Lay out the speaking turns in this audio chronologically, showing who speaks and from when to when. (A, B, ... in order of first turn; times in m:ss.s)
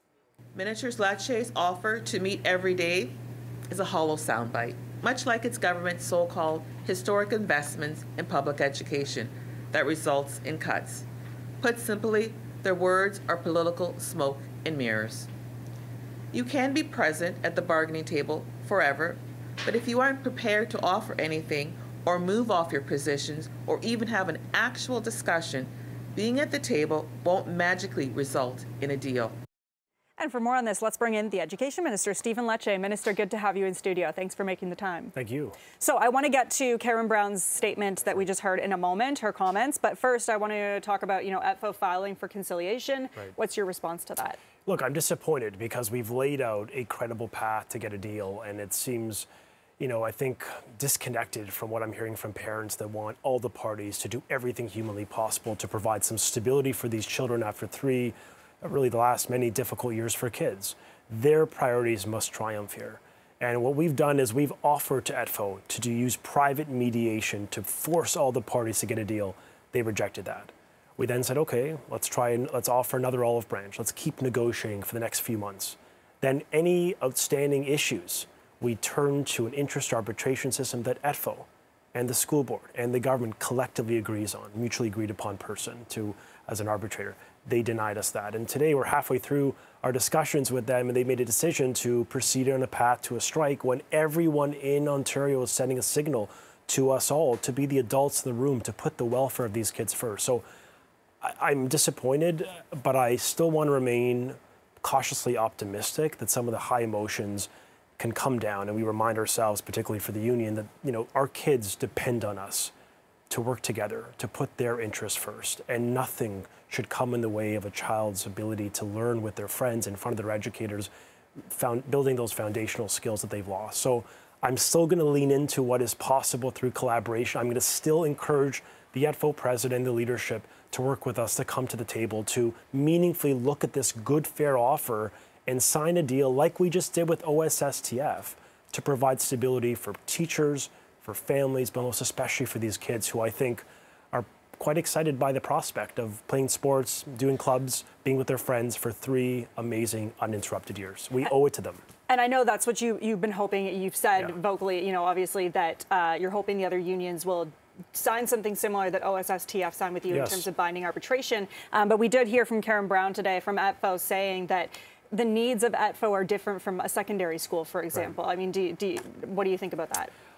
0:00.6-0:03.1 A
0:03.7-0:11.1 A
0:11.6-0:15.3 A
0:16.3-0:29.4 A
0:30.2-0:35.1 B
0:35.2-0:35.6 C
0:35.8-0:44.4 B
0:44.7-0:49.3 C
0:49.8-1:40.4 C
1:41.2-1:52.7 C
1:53.3-2:00.9 C
2:01.5-2:31.8 C
2:32.1-2:50.1 B
2:40.1-2:40.5 C